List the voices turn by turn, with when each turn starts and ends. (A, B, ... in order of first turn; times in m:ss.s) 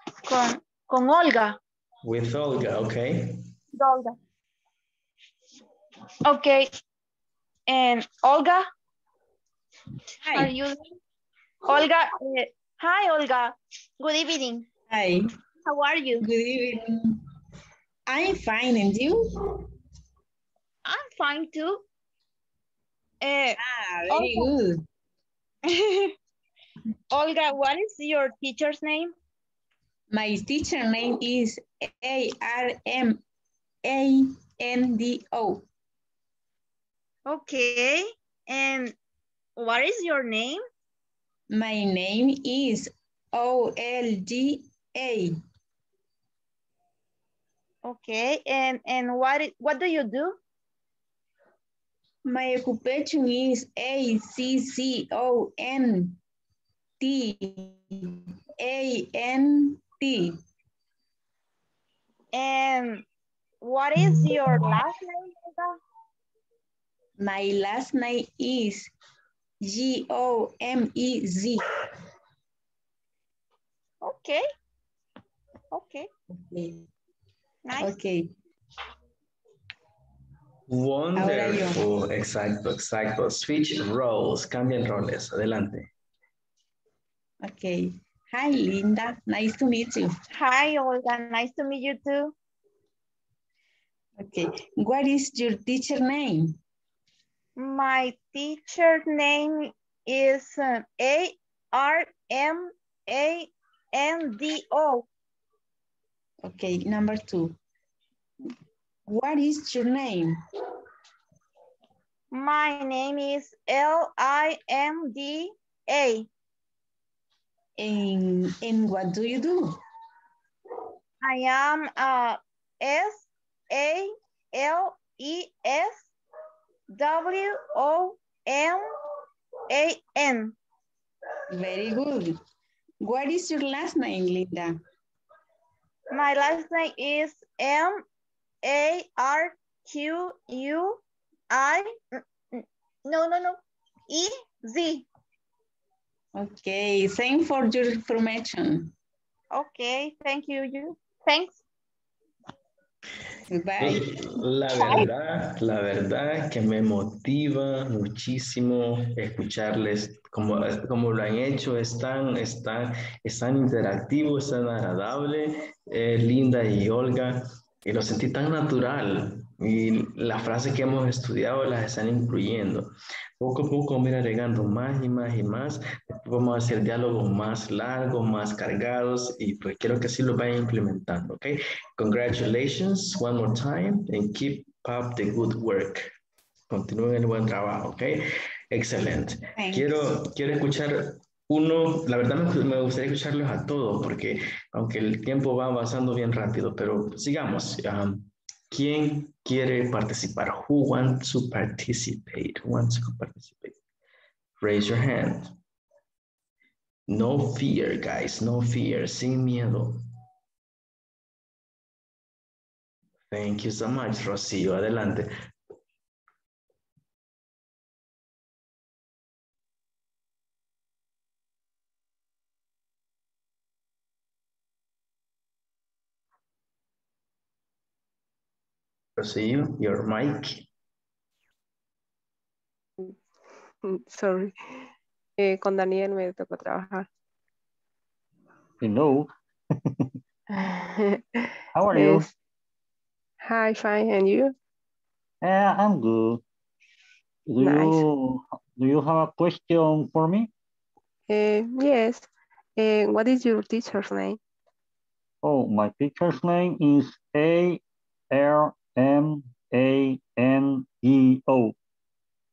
0:00.2-0:01.6 A
0:02.0-0:03.4 B
0:03.8-0:04.2 A
0:06.2-0:06.7 A
0:07.7-0:08.6 A
0:10.2-0:10.5 C
0:10.3-0:10.9 A
0:11.7-0:14.6 A
0:14.9-0:15.3 C
0:15.6-0:16.2 A
0:16.2-0:17.2 C
0:18.1-0:19.3 C
0:20.8-0:21.8 A
0:23.2-0:24.5 A
0:23.6-0:24.8 C
0:25.6-0:26.1 A
0:27.1-0:29.1 A
0:30.1-0:33.2 C
0:33.8-0:35.6 C
0:37.3-0:38.9 A
0:39.6-0:40.6 A
0:41.5-0:45.4 C
0:47.8-0:50.4 A
0:52.2-0:56.2 C
0:57.0-1:00.4 C
1:02.3-1:03.0 A
1:03.6-1:05.8 A
1:04.0-1:04.6 C
1:07.2-1:08.9 C
1:09.6-1:11.6 C
1:14.0-1:14.4 A
1:15.7-1:16.1 A
1:16.4-1:16.8 C
1:17.7-1:17.9 A
1:17.8-1:18.3 C
1:20.7-1:25.9 B
1:21.2-1:21.8 C
1:27.4-1:30.2 C
1:30.3-1:32.3 A
1:34.2-1:36.6 C
1:37.6-1:45.1 A
1:46.4-1:47.6 C
1:49.1-1:50.4 C
1:52.3-1:56.3 A
1:57.8-1:59.8 C
2:01.2-2:06.1 A
2:06.9-2:08.8 A
2:09.7-2:10.6 A
2:11.5-2:12.4 C
2:13.0-2:14.8 C
2:16.1-2:18.0 A
2:18.6-2:25.0 A
2:26.3-2:28.9 C
2:29.5-2:31.6 A
2:33.5-2:34.1 C
2:33.8-3:06.1 B
3:06.7-3:23.8 B
3:09.6-3:10.1 C
3:24.6-3:25.5 B
3:27.1-3:30.0 B
3:33.3-3:35.3 B
3:49.2-3:50.7 B
3:53.8-3:54.8 D
3:55.4-3:57.0 D
3:58.8-3:59.3 E
3:59.8-4:00.1 E
4:00.5-4:02.3 D
4:01.7-4:02.3 E
4:03.4-4:04.5 D
4:05.4-4:06.4 E
4:07.5-4:10.5 E
4:07.6-4:08.0 D
4:11.3-4:14.4 D
4:15.4-4:21.7 E